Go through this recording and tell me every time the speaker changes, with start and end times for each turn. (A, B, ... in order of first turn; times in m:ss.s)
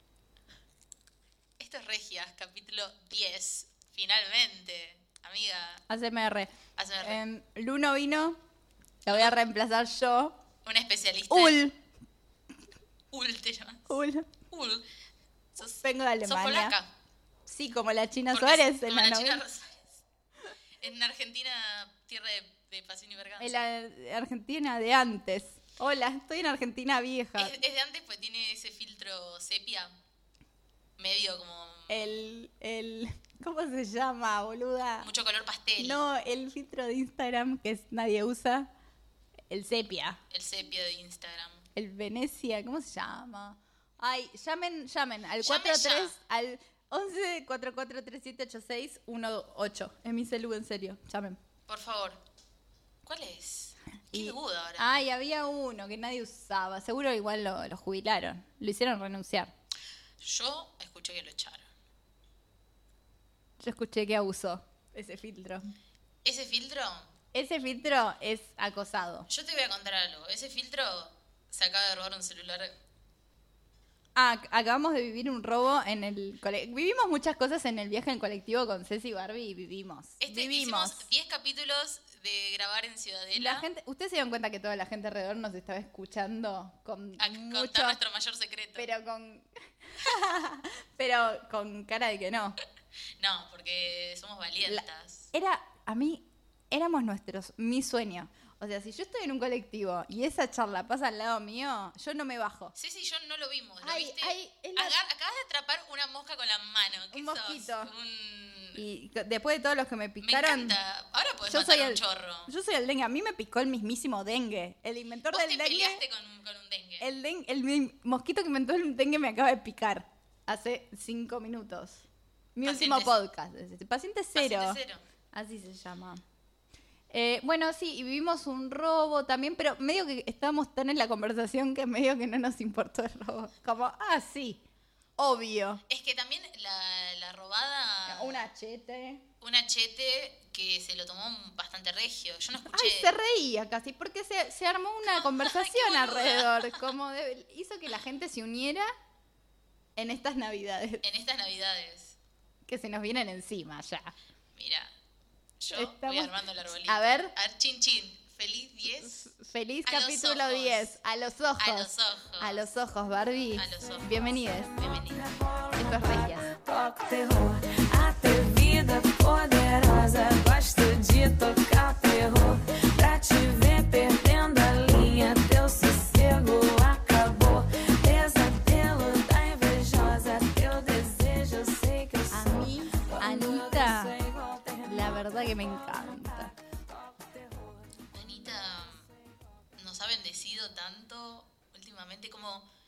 0:01.6-0:05.8 A
0:05.9-0:08.4 B
0:06.8-0:07.2 A
0:09.0-0:10.4 B
0:09.1-0:09.4 A
0:10.6-0:11.7 A
0:11.3-0:11.8 B
0:13.1-0:14.0 A
0:13.9-0:14.3 B
0:14.5-0:14.9 A
0:15.6-0:16.9 A
0:15.8-0:16.8 B
0:17.5-0:19.4 B
0:18.3-0:20.0 A
0:20.8-0:23.6 A
0:23.4-0:27.6 B
0:27.4-0:30.0 A
0:31.0-0:32.3 A
0:31.9-0:35.1 B
0:35.0-0:36.1 A
0:35.8-0:38.7 B
0:39.5-0:40.2 B
0:40.3-0:41.7 A
0:41.8-0:51.4 B
0:45.4-0:46.2 A
0:51.7-0:52.2 A
0:53.0-0:55.0 A
0:54.1-0:59.5 B
1:00.2-1:01.7 A
1:03.6-1:05.7 B
1:06.2-1:07.1 A
1:07.3-1:09.3 B
1:09.3-1:12.8 A
1:14.2-1:21.1 B
1:20.2-1:23.7 A
1:23.3-1:28.0 B
1:27.2-1:28.9 A
1:28.8-1:32.6 B
1:33.2-1:35.3 A
1:34.6-1:42.7 B
1:42.8-1:48.8 A
1:43.8-1:45.0 B
1:47.1-1:47.9 B
1:48.8-1:50.8 B
1:50.2-1:52.5 A
1:51.4-1:56.0 B
1:55.3-1:57.2 A
1:57.0-2:02.0 B
2:02.6-2:04.8 B
2:02.6-2:03.2 A
2:04.4-2:05.0 A
2:05.3-2:06.2 B
2:07.1-2:14.6 B
2:15.2-2:15.8 B
2:15.9-2:18.4 A
2:18.1-2:19.2 B
2:19.4-2:23.1 A
2:22.7-2:28.9 B
2:25.1-2:26.9 A
2:30.0-2:31.0 B
2:31.0-2:32.2 A
2:32.7-2:34.1 B
2:34.6-2:34.9 A
2:35.6-2:39.3 A
2:35.7-2:36.3 B
2:36.9-2:37.3 B
2:39.0-2:41.9 B
2:39.9-2:40.9 A
2:41.6-2:42.6 A
2:42.4-2:44.8 B
2:43.6-2:45.3 A
2:45.2-3:06.6 C
2:45.8-2:46.5 B
3:02.3-3:04.2 B
3:04.8-3:06.5 B
3:07.1-3:08.0 C
3:08.1-3:09.1 A
3:09.8-3:12.7 A